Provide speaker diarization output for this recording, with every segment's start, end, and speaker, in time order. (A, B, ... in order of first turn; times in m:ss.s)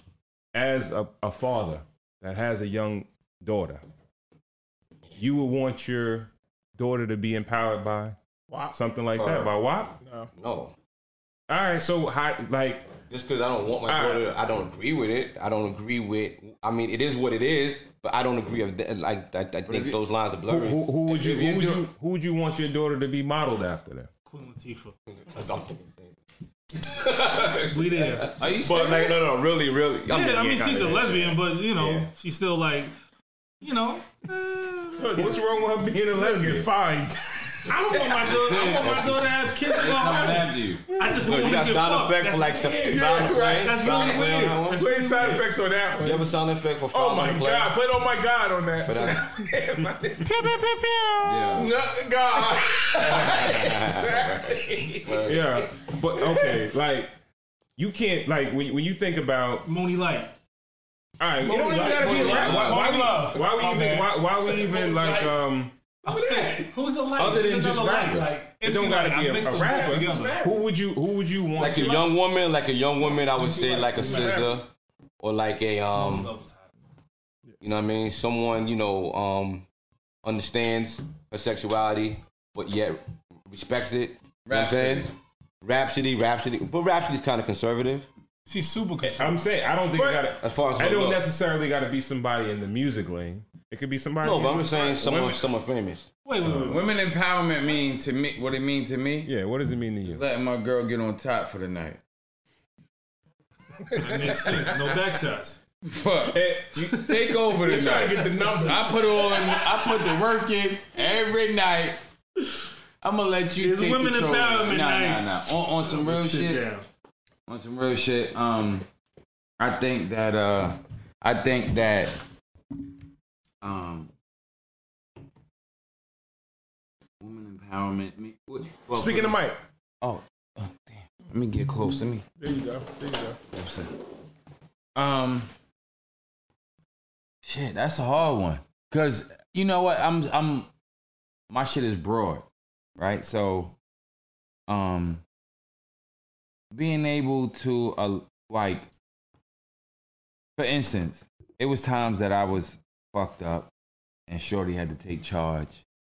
0:00.5-0:03.8 A
0:05.1-0:08.2 A
0:08.7-0:09.9 A
0:09.2-0:09.5 B
0:10.0-0:10.3 C
0:10.3-0:10.7 B
0:11.5-0:12.9 A
0:13.1-0:20.8 B
0:13.8-0:14.2 A
0:19.7-0:20.0 D
0:20.4-0:24.1 A
0:21.0-0:21.9 D
0:24.2-0:24.9 E
0:25.1-0:26.2 B
0:26.7-0:32.1 B
0:27.6-0:28.3 E
0:28.4-0:29.2 D
0:30.1-0:32.9 E
0:33.6-0:35.0 E
0:35.0-0:35.4 C
0:35.1-0:36.7 A
0:36.1-0:38.2 C
0:37.6-0:45.4 E
0:38.2-0:40.8 D
0:38.2-0:39.4 B
0:40.9-0:41.2 C
0:41.1-0:44.8 B
0:42.7-0:46.3 C
0:46.0-0:47.8 B
0:46.9-0:50.5 C
0:48.8-0:49.5 B
0:50.3-0:51.6 D
0:51.2-0:51.7 B
0:51.5-0:55.1 C
0:52.5-0:55.4 B
0:55.2-0:57.1 A
0:57.8-0:59.7 A
0:59.6-1:00.3 E
1:01.2-1:05.7 A
1:01.4-1:05.1 E
1:01.7-1:03.0 B
1:04.9-1:05.2 C
1:06.0-1:10.5 E
1:06.1-1:06.7 C
1:07.2-1:12.1 A
1:07.2-1:08.3 B
1:11.5-1:14.7 B
1:13.3-1:14.5 E
1:13.9-1:14.5 C
1:15.2-1:16.3 B
1:15.9-1:16.7 E
1:17.6-1:19.7 B
1:20.2-1:28.1 B
1:24.4-1:25.1 D
1:28.5-1:29.4 E
1:29.2-1:35.4 A
1:29.9-1:30.2 C
1:30.3-1:31.2 B
1:34.2-1:36.1 B
1:36.2-1:36.9 E
1:36.4-1:36.8 A
1:36.7-1:39.3 D
1:39.2-1:40.2 A
1:40.0-1:42.0 D
1:43.9-1:44.6 C
1:44.0-1:45.6 E
1:45.8-1:52.1 D
1:46.3-1:47.0 A
1:47.6-1:49.3 C
1:53.0-1:56.6 D
1:53.6-1:56.9 E
1:57.5-1:58.8 D
1:59.6-2:02.2 D
2:03.6-2:04.1 D
2:07.2-2:09.4 D
2:08.9-2:09.6 C
2:10.0-2:12.2 D
2:12.4-2:13.4 C
2:13.5-2:13.9 D
2:14.9-2:15.5 D
2:17.4-2:20.7 D
2:21.5-2:22.4 D
2:23.0-2:23.8 D
2:24.7-2:25.2 D
2:26.7-2:28.9 D
2:30.6-2:33.7 D
2:34.3-2:35.8 D